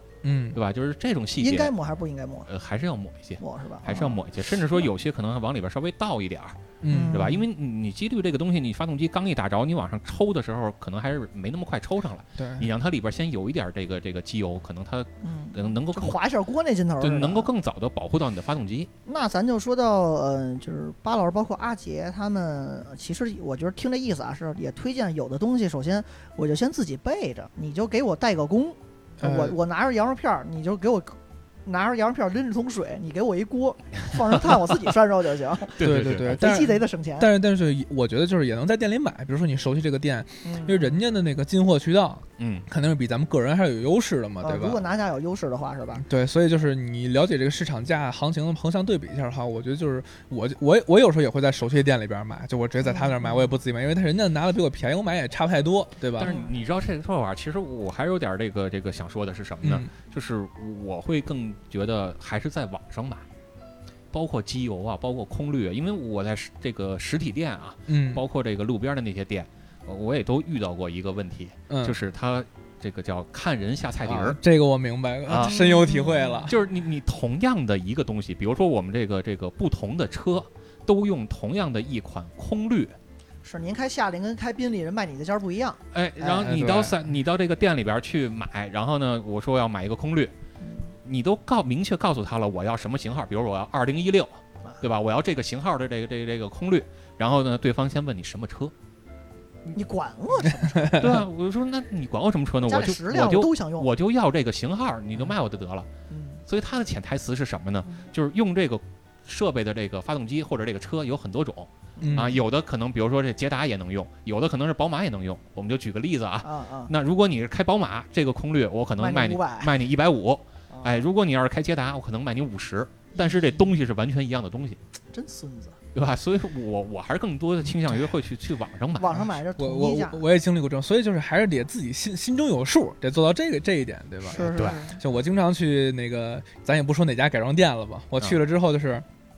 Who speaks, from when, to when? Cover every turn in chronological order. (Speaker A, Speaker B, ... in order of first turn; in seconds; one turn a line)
Speaker A: 0.2-0.6
Speaker B: 0.5-1.7
Speaker C: 1.4-2.5
Speaker B: 2.5-16.2
Speaker C: 3.4-4.2
Speaker A: 6.8-7.2
Speaker C: 6.9-7.4
Speaker A: 12.4-12.7
Speaker C: 15.2-17.5
Speaker B: 17.0-18.9
Speaker C: 19.1-35.8
Speaker A: 29.2-29.6
Speaker B: 35.8-36.6
Speaker A: 35.8-44.8
Speaker C: 36.3-37.3
Speaker C: 40.4-41.0
Speaker B: 42.4-42.6
Speaker C: 44.4-46.0
Speaker A: 46.0-56.3
Speaker C: 52.8-53.6
Speaker B: 56.2-63.2
Speaker C: 56.2-56.5
Speaker A: 59.6-59.9
Speaker B: 64.1-74.4
Speaker A: 67.9-68.2
Speaker A: 71.7-72.0
Speaker A: 74.0-76.5
Speaker B: 75.3-75.5
Speaker C: 75.4-76.5
Speaker B: 76.5-83.0
Speaker C: 83.4-85.8
Speaker B: 85.9-90.3
Speaker A: 86.2-87.0
Speaker C: 90.6-90.9
Speaker B: 91.0-98.7
Speaker C: 99.7-101.1
Speaker A: 100.7-101.1
Speaker B: 100.9-105.9
Speaker C: 102.6-103.9
Speaker C: 106.1-106.4
Speaker B: 106.5-124.8
Speaker C: 112.0-112.3
Speaker A: 112.0-112.4
Speaker C: 116.4-116.9
Speaker C: 119.0-119.7
Speaker C: 120.7-121.0
Speaker C: 123.2-123.6
Speaker C: 125.1-125.8
Speaker B: 125.9-129.2
Speaker C: 129.0-130.2
Speaker A: 129.6-139.0
Speaker C: 134.3-135.0
Speaker B: 134.4-134.8